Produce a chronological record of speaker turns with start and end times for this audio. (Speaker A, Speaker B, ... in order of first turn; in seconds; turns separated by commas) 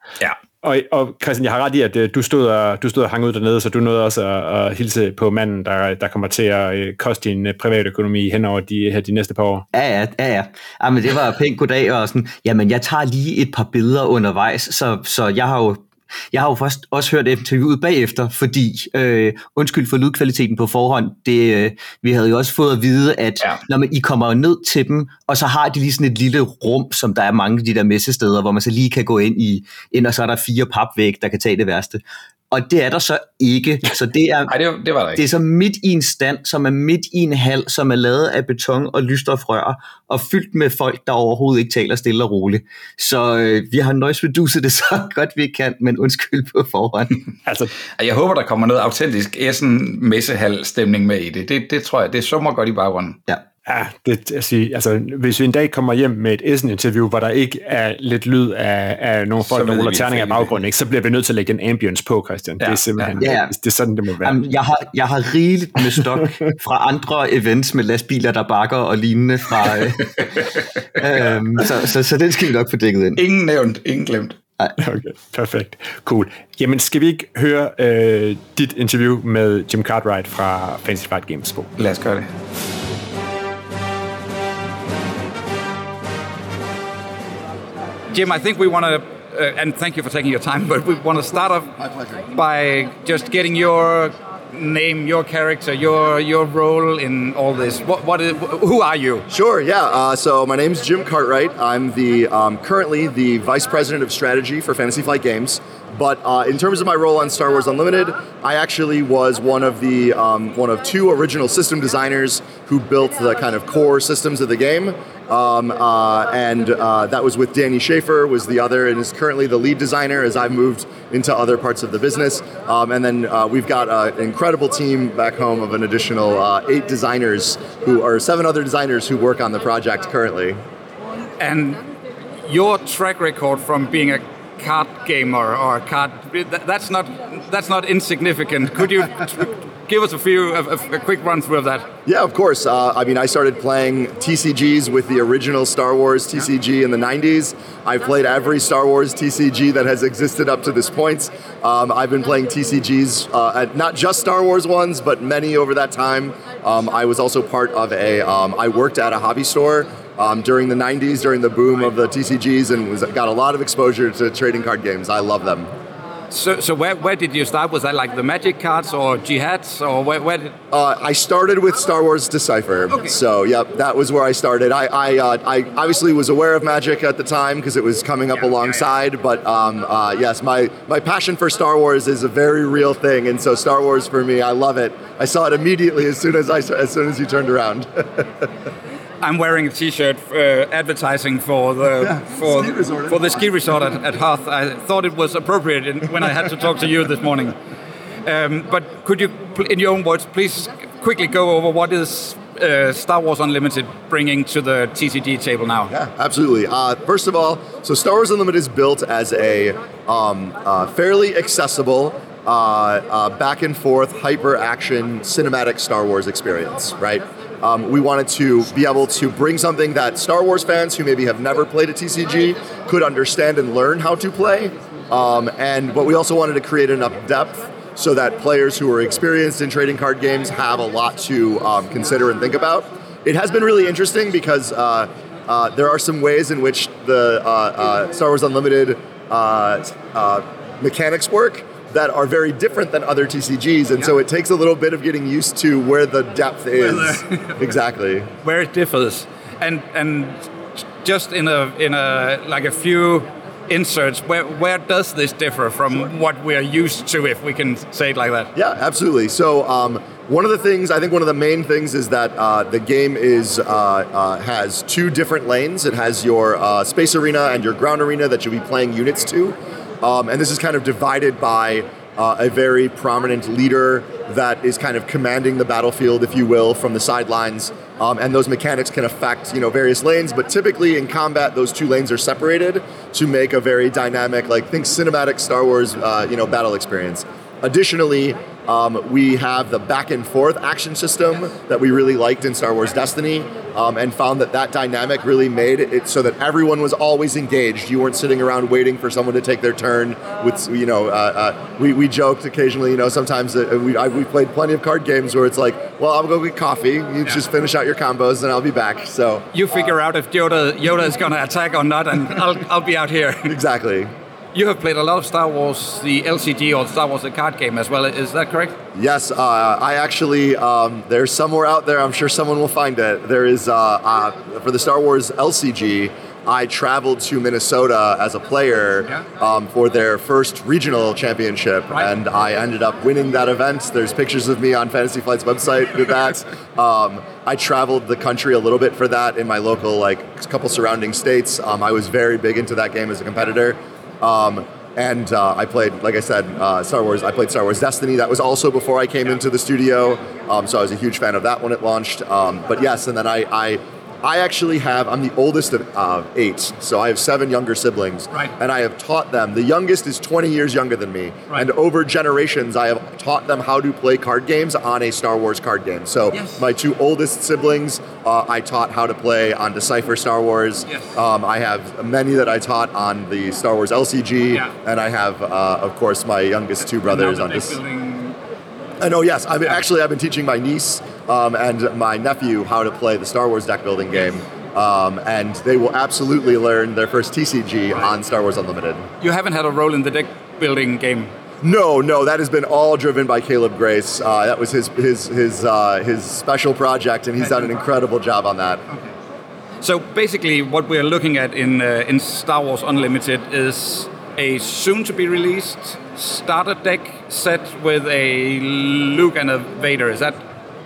Speaker A: 0.6-9.7, Speaker B: 9.7-34.5, Speaker C: 34.5-35.2, Speaker B: 35.2-47.3, Speaker A: 47.5-47.7, Speaker C: 48.0-53.2, Speaker A: 53.7-64.4, Speaker C: 59.4-60.5, Speaker C: 62.6-63.1, Speaker B: 63.2-63.5, Speaker B: 64.2-73.2, Speaker C: 73.2-74.4, Speaker A: 74.8-81.7, Speaker C: 81.8-82.3, Speaker D: 88.1-91.7, Speaker E: 91.8-92.2, Speaker D: 92.3-99.3, Speaker E: 99.3-130.6, Speaker D: 131.4-131.8, Speaker D: 132.4-141.9, Speaker E: 142.1-165.7, Speaker D: 166.3-170.6, Speaker E: 170.7-188.4, Speaker D: 178.4-178.8, Speaker D: 189.2-197.6, Speaker E: 192.0-193.6, Speaker D: 198.2-205.9, Speaker E: 205.9-248.3, Speaker D: 246.8-247.6, Speaker D: 248.4-258.5, Speaker E: 258.6-309.5, Speaker D: 309.5-313.6, Speaker E: 313.5-314.1, Speaker D: 314.5-318.8, Speaker E: 318.9-377.8, Speaker D: 366.3-366.6, Speaker D: 370.9-371.1, Speaker D: 377.1-378.4, Speaker E: 379.0-389.1, Speaker D: 389.2-391.3, Speaker E: 391.6-398.8, Speaker D: 399.8-410.4